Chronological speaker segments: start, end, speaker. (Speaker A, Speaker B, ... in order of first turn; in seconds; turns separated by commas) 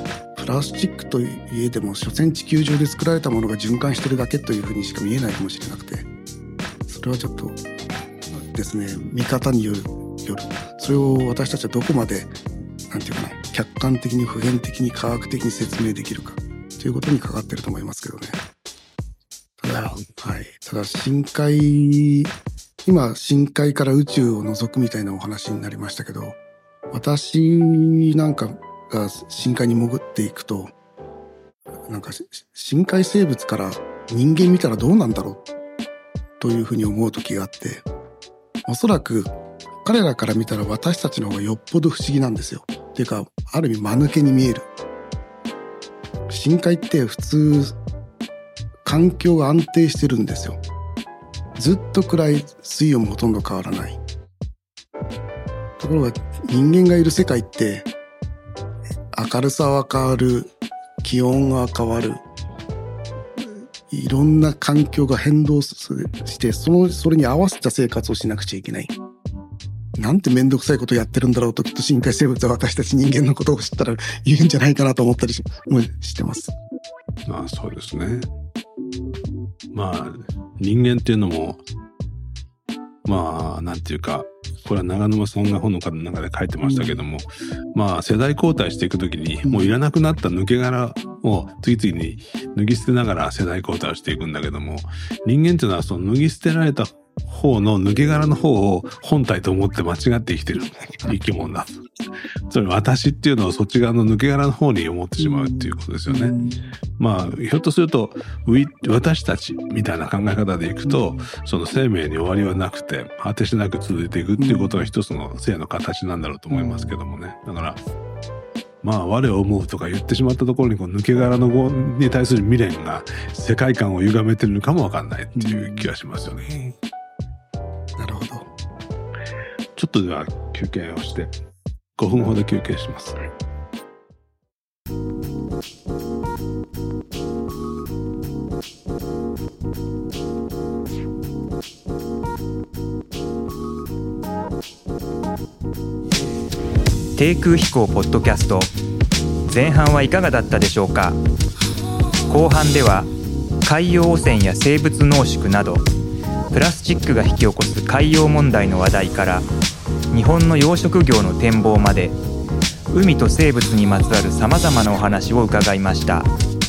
Speaker A: 0.3-6.1, Speaker A: 6.9-7.6, Speaker A: 8.3-12.4, Speaker A: 12.9-18.4, Speaker A: 19.6-22.3, Speaker A: 22.9-26.4, Speaker A: 26.9-30.7, Speaker A: 31.9-35.5, Speaker A: 36.4-37.9, Speaker A: 38.7-39.3, Speaker A: 39.8-44.7, Speaker A: 46.3-47.8, Speaker A: 48.9-50.6, Speaker A: 51.6-54.0, Speaker A: 55.8-57.9, Speaker A: 59.1-62.2, Speaker A: 63.4-68.9, Speaker A: 70.0-76.5, Speaker B: 77.3-78.3, Speaker B: 79.7-81.6, Speaker B: 83.0-101.9, Speaker A: 86.6-87.0, Speaker A: 89.4-89.8, Speaker B: 102.5-106.4, Speaker A: 105.2-106.6, Speaker B: 107.0-117.8, Speaker A: 114.4-114.9, Speaker A: 116.5-116.9, Speaker B: 118.8-126.8, Speaker A: 125.3-125.9, Speaker A: 128.0-128.5, Speaker B: 129.8-131.3, Speaker B: 132.0-133.2, Speaker C: 147.2-148.7, Speaker C: 149.5-151.2, Speaker C: 152.3-153.1, Speaker C: 153.7-155.9, Speaker C: 156.5-159.5, Speaker C: 160.1-162.2, Speaker C: 162.9-166.3